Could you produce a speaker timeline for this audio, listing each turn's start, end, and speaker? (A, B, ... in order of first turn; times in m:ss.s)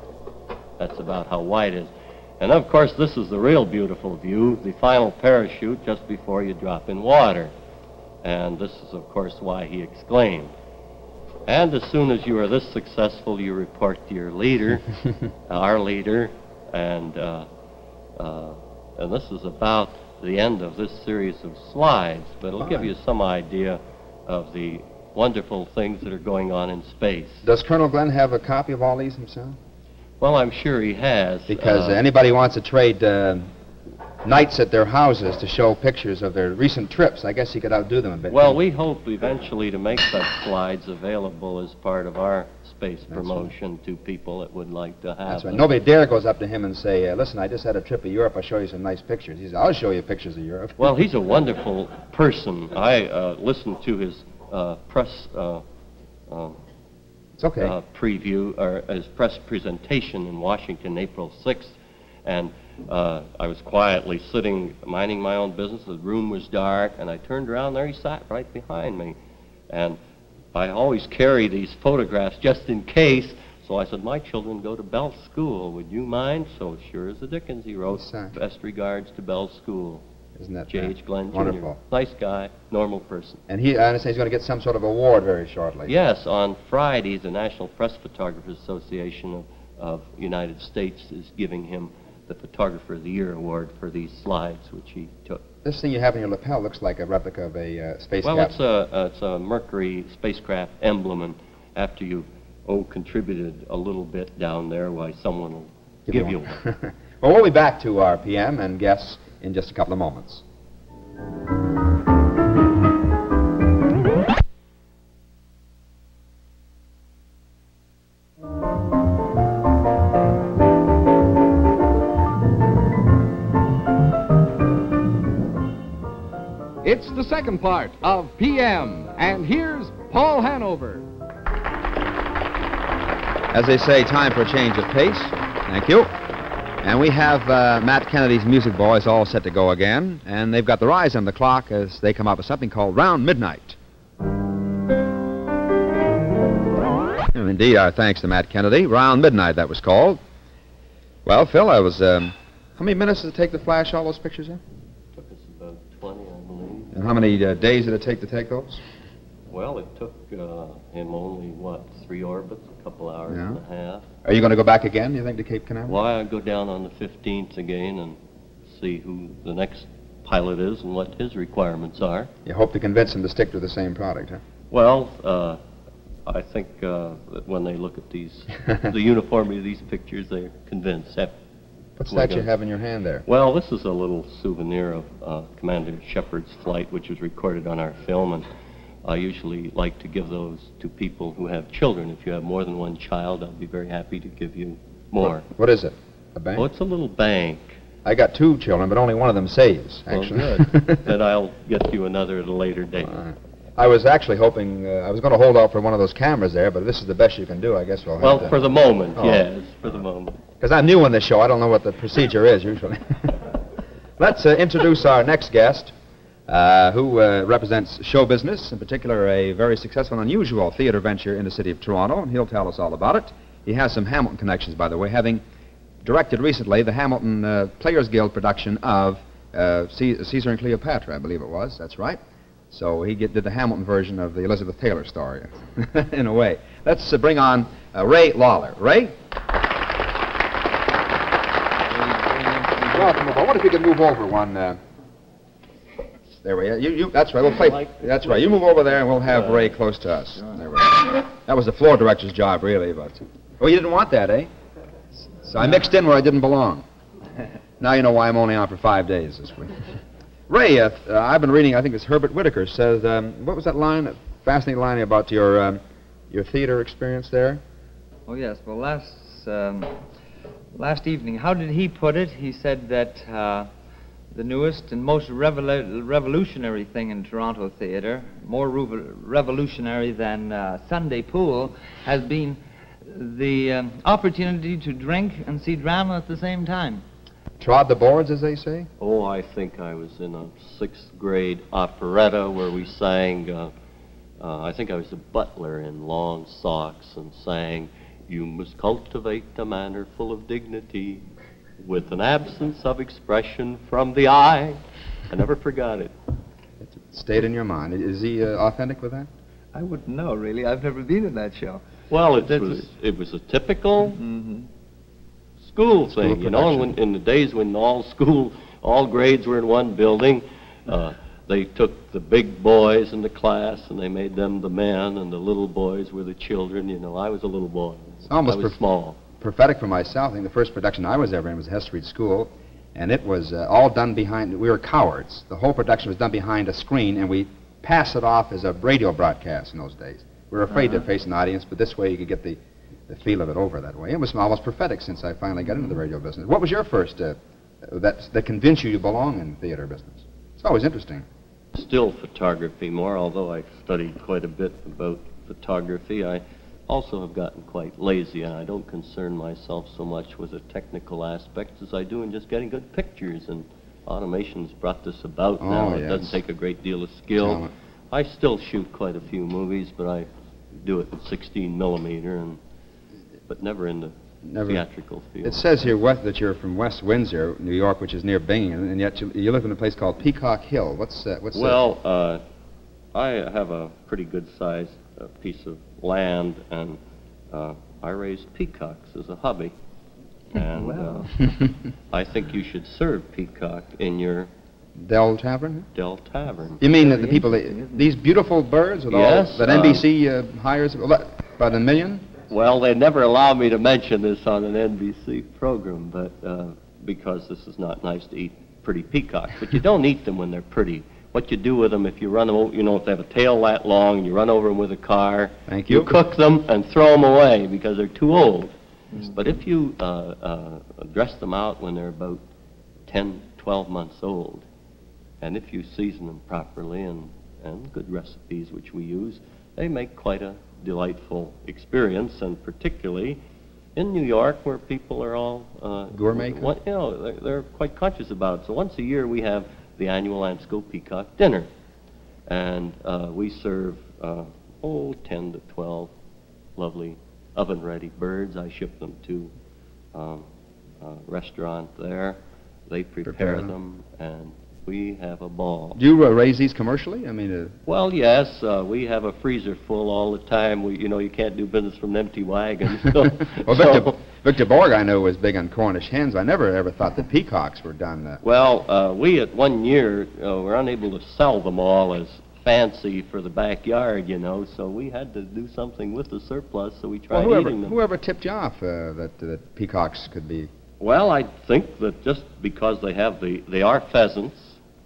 0:00.8-0:07.5 A
0:08.2-0:10.5 A
0:11.4-0:14.8 A
0:15.4-0:17.5 A
0:18.2-0:27.4 A
0:22.6-0:22.9 B
0:27.4-0:29.6 B
0:30.2-0:32.0 A
0:31.5-0:33.5 B
0:34.2-0:38.6 B
0:38.3-0:45.7 A
0:43.1-0:43.5 B
0:45.3-0:50.9 B
0:50.8-0:55.6 A
0:56.3-0:56.6 A
0:57.4-0:57.7 B
0:57.6-1:09.2 A
1:09.7-1:10.0 A
1:10.5-1:20.0 A
1:17.9-1:18.3 B
1:20.4-1:21.8 B
1:20.7-1:23.4 A
1:23.5-1:25.9 B
1:25.8-1:35.4 A
1:35.6-1:38.6 B
1:38.2-1:46.6 A
1:46.1-1:50.4 B
2:06.8-2:11.0 C
2:13.5-2:16.1 B
2:16.8-2:23.8 B
2:27.3-2:30.2 B
2:31.2-2:34.6 B
2:35.1-2:36.9 A
2:36.9-2:38.8 B
2:39.5-2:44.0 A
2:43.3-2:43.6 B
2:44.2-2:46.0 B
2:45.9-2:52.3 A
2:52.4-2:54.4 B
2:54.7-2:55.6 A
2:56.2-3:01.4 A
3:02.0-3:03.2 B
3:02.1-3:02.5 A
3:03.2-3:08.5 A
3:09.0-3:15.4 A
3:15.4-3:16.6 B
3:16.6-3:17.8 A
3:18.0-3:21.0 B
3:20.1-3:23.2 A
3:23.1-3:28.6 B
3:28.2-3:30.4 A
3:29.2-3:29.4 B
3:30.6-3:33.6 B
3:34.2-3:35.9 B
3:36.5-3:45.4 B
3:46.0-3:52.2 B
3:52.7-3:59.1 B
4:01.9-4:03.2 D
4:02.9-4:04.8 B
4:06.4-4:14.5 B
4:07.5-4:08.4 A
4:15.4-4:16.8 B
4:17.8-4:19.8 B
4:20.5-4:27.6 B
4:28.3-4:30.0 D
4:30.7-4:33.7 D
4:34.3-4:47.0 D
4:47.6-4:48.9 B
4:49.0-4:53.7 A
4:54.4-5:01.2 A
5:01.8-5:06.1 A
5:06.8-5:09.3 B
5:09.7-5:11.8 D
5:12.1-5:14.2 A
5:12.4-5:12.8 D
5:14.2-5:14.7 D
5:15.6-5:29.2 A
5:16.1-5:16.9 B
5:28.3-5:28.8 B
5:29.4-5:51.2 B
5:51.7-6:10.3 A
6:05.6-6:06.4 B
6:07.4-6:07.7 B
6:10.8-6:12.6 A
6:13.5-6:15.6 A
6:14.4-6:14.8 B
6:15.4-6:21.8 B
6:21.5-6:22.4 A
6:23.1-6:27.0 A
6:27.5-6:29.7 A
6:30.5-6:31.3 A
6:30.7-6:31.3 D
6:32.1-6:34.5 A
6:35.0-6:35.9 B
6:35.9-6:36.8 A
6:36.8-6:42.3 B
6:37.0-6:38.1 D
6:39.1-6:40.0 A
6:42.5-7:02.4 A
6:55.7-6:56.2 B
7:03.1-7:04.6 A
7:05.4-7:13.4 A
7:14.0-7:21.7 A
7:16.1-7:16.7 B
7:22.5-7:26.1 A
7:26.8-7:29.5 A
7:30.1-7:30.5 A
7:31.0-7:36.0 A
7:33.2-7:33.7 B
7:36.0-7:37.7 B
7:37.9-7:44.1 A
7:43.5-7:48.4 B
7:48.4-7:58.0 A
7:57.3-8:00.7 B
8:01.0-8:04.8 A